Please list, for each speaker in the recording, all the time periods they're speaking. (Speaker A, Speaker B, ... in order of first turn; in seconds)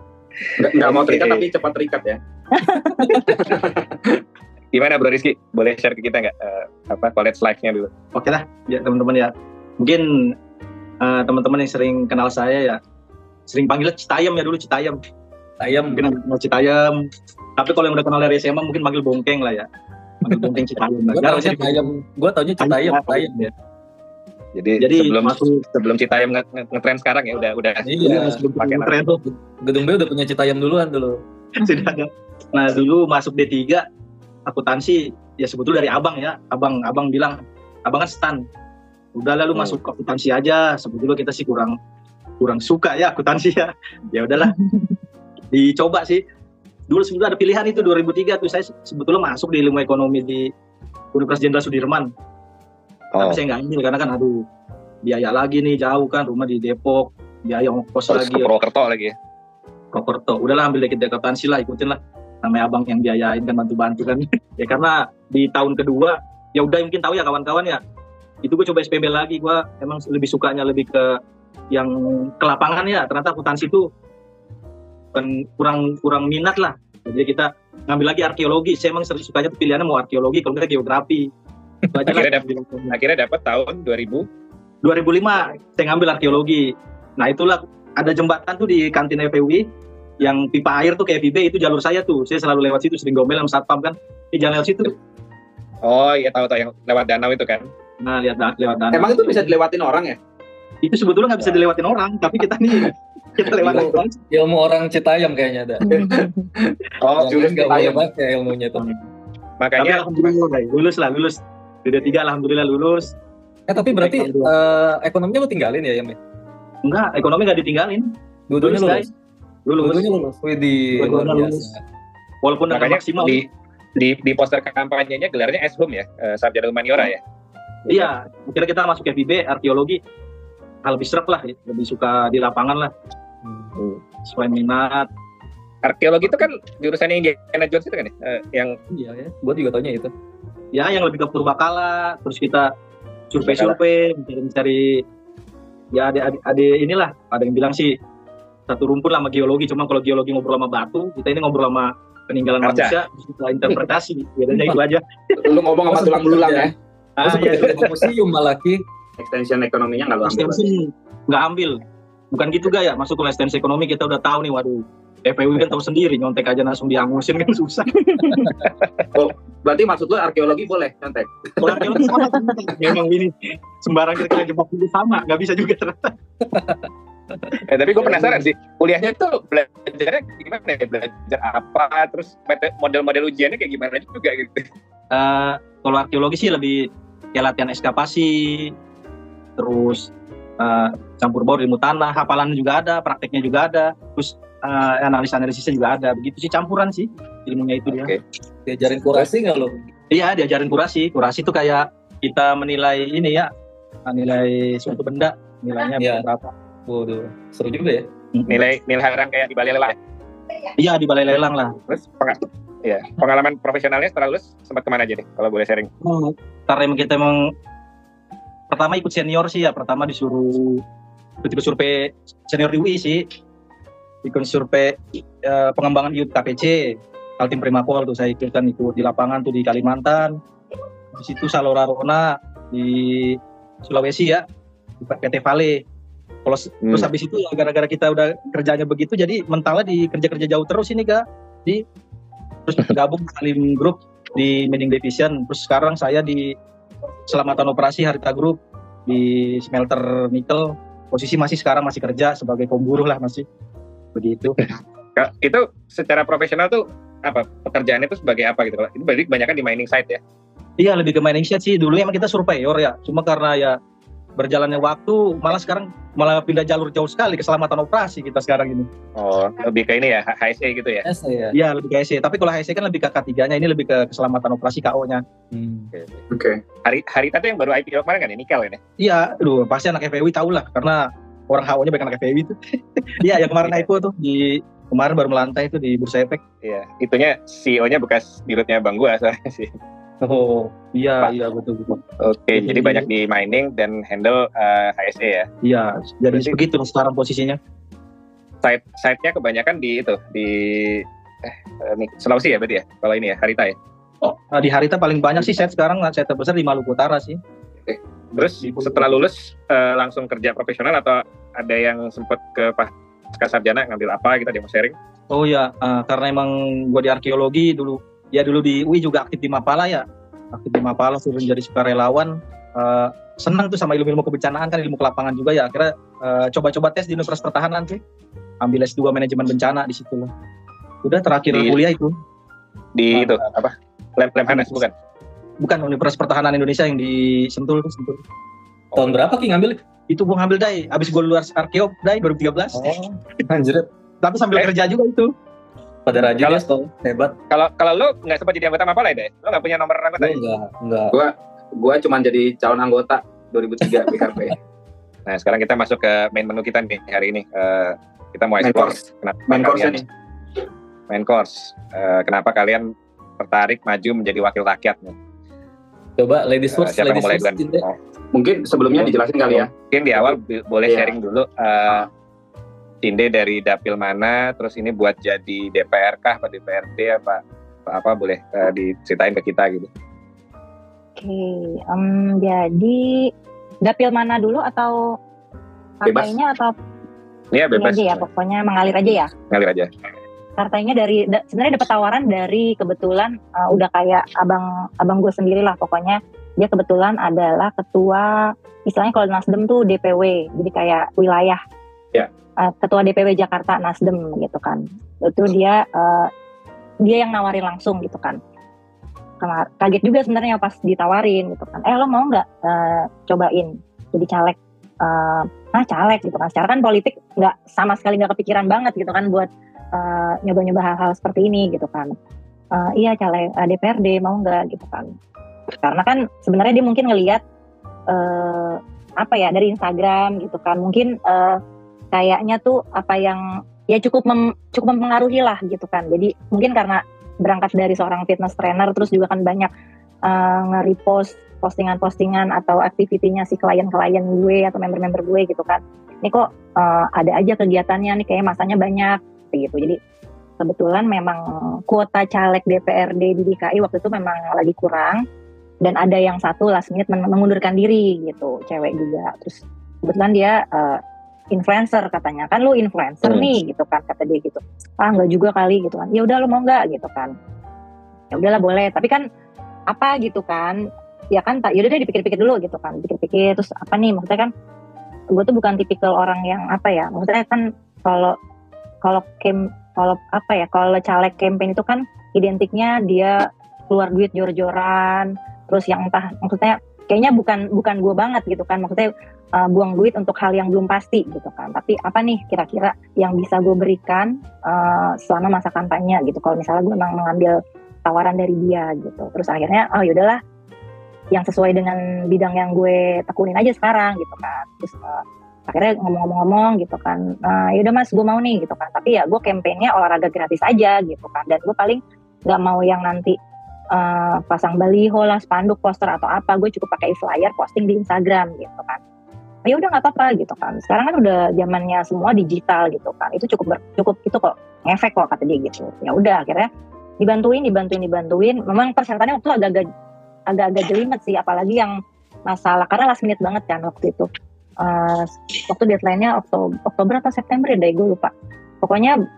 Speaker A: 0.6-2.2, 3.2-4.2, 98.9-100.2, 105.9-108.0, 155.4-156.7, 159.2-160.6, 169.1-172.1, 276.3-276.6, 351.1-354.5, 358.6-360.0, 368.3-370.3, 370.9-371.1, 386.0-386.3
Speaker B: 0.6-1.5, 4.7-7.9, 24.5-28.0, 28.6-28.9, 53.1-53.4, 58.1-59.1, 82.0-84.3, 95.8-97.7, 107.0-107.3, 109.6-110.1, 122.7-127.2, 135.8-138.8, 143.4-143.8, 152.6-152.9, 177.7-184.7, 197.9-198.2, 208.5-209.9, 211.9-215.9, 254.6-260.2, 269.1-271.0, 275.9-276.2, 276.8-278.8, 286.6-289.8, 292.2-295.5, 298.6-303.8, 308.3-314.9, 332.9-334.9, 347.5-350.4, 355.2-360.0, 361.1-362.9, 363.4-365.1, 366.7-368.0, 369.6-372.1, 373.0-379.9, 387.5-388.2, 389.5-389.9, 463.2-463.5
Speaker C: 2.6-3.1, 105.9-106.5, 381.2-383.3, 383.8-385.0, 386.0-386.7, 387.8-389.3, 390.6-401.6, 402.6-406.3, 407.1-408.4, 409.4-422.1, 422.7-425.1, 425.8-427.4, 428.1-431.6, 432.1-439.7, 440.2-450.0, 450.6-455.2, 455.8-461.0, 461.5-467.3, 468.3-469.2, 469.9-470.8, 471.3-474.5, 475.3-478.4, 479.0-500.4, 501.3-513.4, 513.9-519.0, 519.6-526.7, 527.2-529.9, 530.5-531.9, 532.5-534.3, 534.8-538.3, 538.8-539.1
Speaker D: 8.1-10.3, 11.0-12.8, 13.5-15.0, 15.9-19.7, 20.2-21.9, 22.6-23.5, 24.8-25.6, 28.0-29.3, 31.6-33.9, 34.5-38.4, 39.1-41.7, 42.4-44.6, 45.5-46.2, 46.9-50.5, 51.1-52.1, 53.2-54.5, 55.0-58.5, 59.9-67.8, 68.4-71.2, 71.7-73.9, 75.1-81.3, 81.9-82.9, 84.8-89.6, 90.2-94.9, 98.0-99.5, 100.8-104.2, 109.8-113.1, 113.8-114.5, 116.8-119.1, 119.7-120.0, 121.0-121.7, 122.4-123.4, 127.9-130.0, 130.8-132.9, 134.2-135.1, 138.9-139.3, 140.7-142.7, 143.3-145.0, 145.9-148.0, 148.7-155.4, 157.2-157.9, 160.2-168.5, 171.6-176.1, 178.0-178.5, 185.1-188.7, 189.6-198.1, 200.1-203.5, 204.1-206.5, 210.8-211.8, 216.0-217.5, 218.7-220.8, 221.4-223.2, 224.2-230.4, 231.1-234.4, 235.0-235.8, 236.4-241.8, 242.7-246.6, 247.3-253.4, 254.1-254.6, 260.8-263.8, 264.4-268.9, 271.5-275.2, 279.0-286.4, 290.9-292.0, 292.5-293.1, 295.6-297.6, 304.2-307.4, 308.6-309.2, 315.3-328.0, 328.6-330.3, 331.0-332.1, 333.1-333.4, 334.5-334.8, 335.6-338.2, 340.1-342.8, 344.2-345.3
Speaker E: 15.6-16.0, 21.1-23.4, 27.8-28.4, 29.6-31.2, 103.6-106.1, 107.2-108.9, 113.7-116.2, 118.5-119.1, 119.8-121.8, 133.4-133.7, 139.4-140.1, 154.5-154.8, 155.9-156.7, 157.2-158.8, 198.7-199.8, 206.0-206.2, 206.9-208.1, 271.0-271.6, 275.5-275.9, 290.2-290.7, 338.9-339.8, 342.7-343.9, 346.1-347.4, 350.2-351.1, 366.2-367.8